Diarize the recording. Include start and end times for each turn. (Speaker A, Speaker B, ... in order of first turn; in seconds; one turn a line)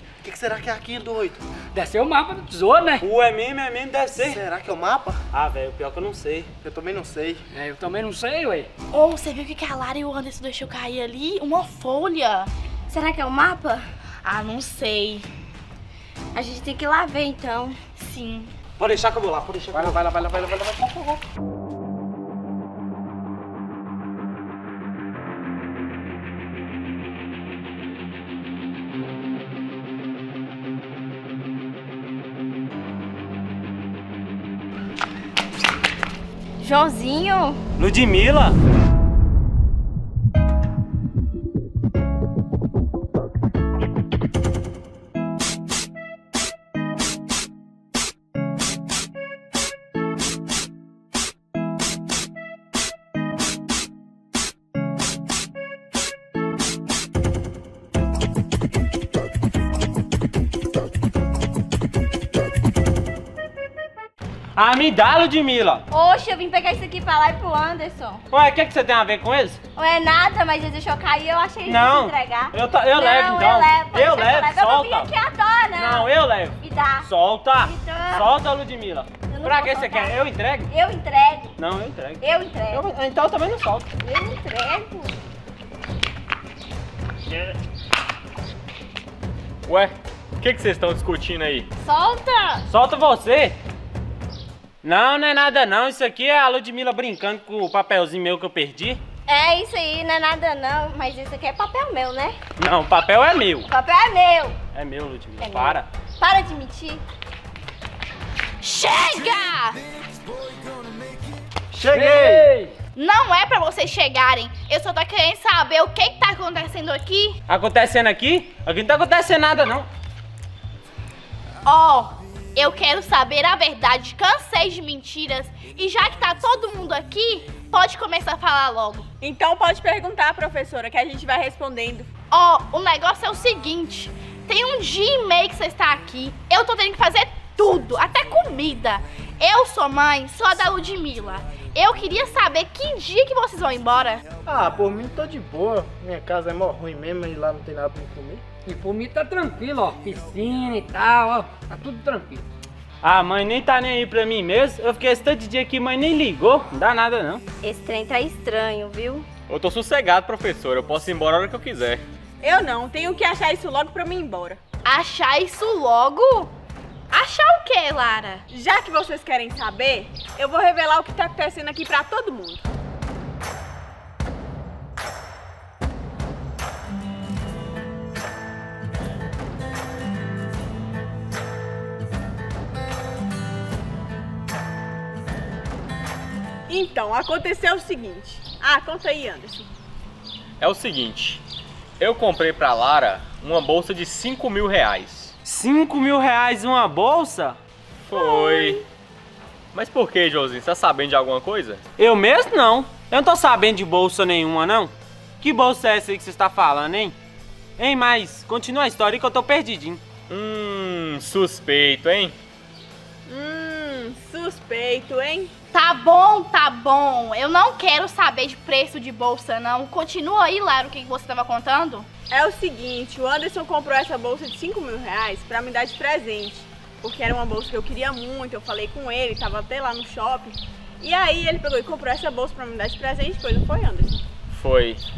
Speaker A: 0.2-1.4
Speaker B: 1.7-3.0
Speaker C: 3.0-4.4
Speaker A: 4.2-5.2
Speaker C: 5.3-6.5
Speaker A: 6.6-7.4
Speaker B: 7.5-8.7
Speaker D: 8.9-12.5
Speaker E: 12.9-13.8
Speaker D: 14.2-15.3
Speaker E: 16.3-17.8
Speaker D: 18.0-18.5
Speaker C: 18.8-21.2
Speaker B: 19.7-20.0
Speaker E: 36.6-37.6
Speaker C: 37.8-38.6
Speaker C: 64.5-65.8
Speaker E: 65.9-68.2
Speaker C: 68.3-69.6
Speaker E: 69.7-77.1
Speaker C: 71.6-75.1
Speaker C: 75.7-80.7
Speaker E: 77.6-78.3
Speaker E: 79.3-81.5
Speaker C: 81.6-83.9
Speaker E: 82.2-82.8
Speaker E: 84.0-85.1
Speaker F: 89.7-91.7
Speaker E: 91.8-92.6
Speaker C: 92.7-93.6
Speaker C: 94.8-99.0
Speaker E: 99.3-102.4
Speaker C: 102.6-103.7
Speaker E: 103.7-104.5
Speaker C: 104.7-105.9
Speaker E: 105.4-107.0
Speaker D: 108.6-109.8
Speaker A: 111.7-112.5
Speaker B: 111.9-112.7
Speaker D: 112.9-117.4
Speaker C: 117.5-119.9
Speaker D: 121.6-129.1
Speaker G: 129.2-132.1
Speaker D: 132.3-144.2
Speaker A: 144.4-148.4
Speaker B: 148.7-152.4
Speaker C: 153.0-157.4
Speaker E: 157.6-159.2
Speaker F: 159.5-162.0
Speaker G: 162.4-164.6
Speaker D: 164.8-166.5
Speaker D: 167.1-168.4
Speaker G: 168.5-172.7
Speaker G: 186.7-189.7
Speaker F: 190.6-191.4
Speaker F: 192.0-195.3
Speaker C: 195.4-197.6
Speaker F: 198.1-198.8
Speaker F: 199.7-201.8
Speaker C: 202.0-207.1
Speaker C: 207.8-210.0
Speaker F: 210.3-212.3
Speaker G: 213.3-215.5
Speaker D: 215.7-222.1
Speaker G: 222.3-234.2
Speaker F: 234.5-235.0